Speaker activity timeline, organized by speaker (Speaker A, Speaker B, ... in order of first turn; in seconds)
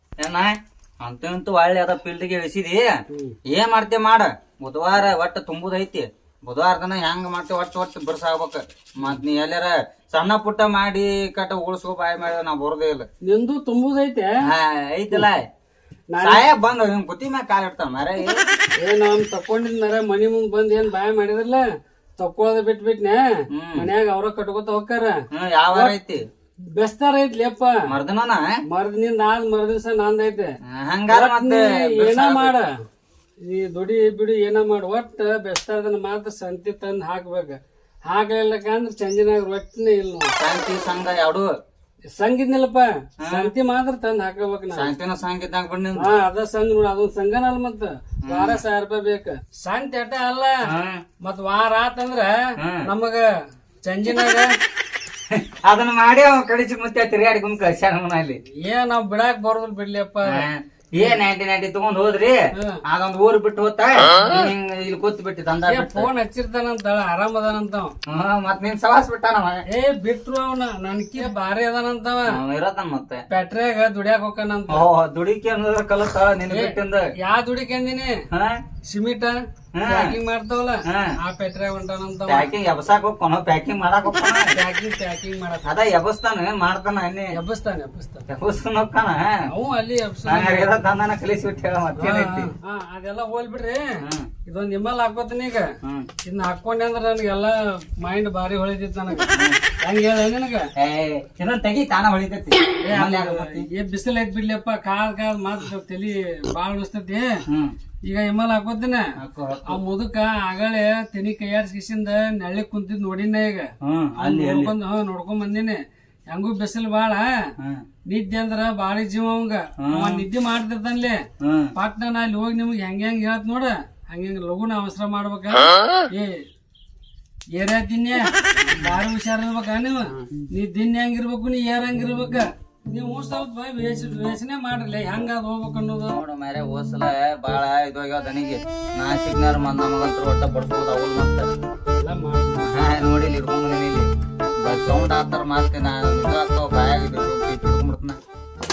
Speaker A: 0.2-3.0, 3.5-13.1, 14.4-15.5, 16.2-18.5, 23.5-23.9, 25.3-26.2, 27.9-28.5, 30.6-32.5, 40.4-41.5, 43.2-43.5, 44.7-46.1, 48.2-48.6, 50.7-51.0, 52.6-52.9, 55.3-58.4, 60.3-66.1, 68.1-69.6, 72.3-73.2, 74.7-77.1, 78.3-78.6, 79.7-80.2, 80.8-81.1, 82.3-84.5, 85.6-87.3, 88.3-89.5, 90.3-92.5, 94.0-94.3, 95.8-96.1, 99.3-99.6, 100.8-103.7, 107.5-107.8, 109.2-109.8, 113.8-114.7, 117.6-117.8, 119.8-120.2, 121.4-121.7, 136.1-141.5, 142.7-144.1, 144.6-148.2
Speaker B: 3.1-3.4, 13.2-14.3, 16.1-16.4, 18.8-21.6, 22.2-23.2, 23.8-25.2, 26.7-27.8, 28.7-30.5, 31.1-32.7, 33.4-40.3, 42.1-44.9, 46.0-50.5, 51.2-53.2, 53.9-54.5, 58.6-61.2, 62.5-62.8, 65.7-67.9, 69.7-72.4, 73.3-74.8, 76.5-78.2, 78.9-82.5, 84.5-85.7, 87.3-88.3, 89.5-90.8, 92.0-93.9, 94.5-95.7, 96.2-100.7, 102.8-107.3, 108.1-109.0, 109.7-117.3, 118.1-121.2, 121.7-126.4, 127.5-136.2, 142.0-142.7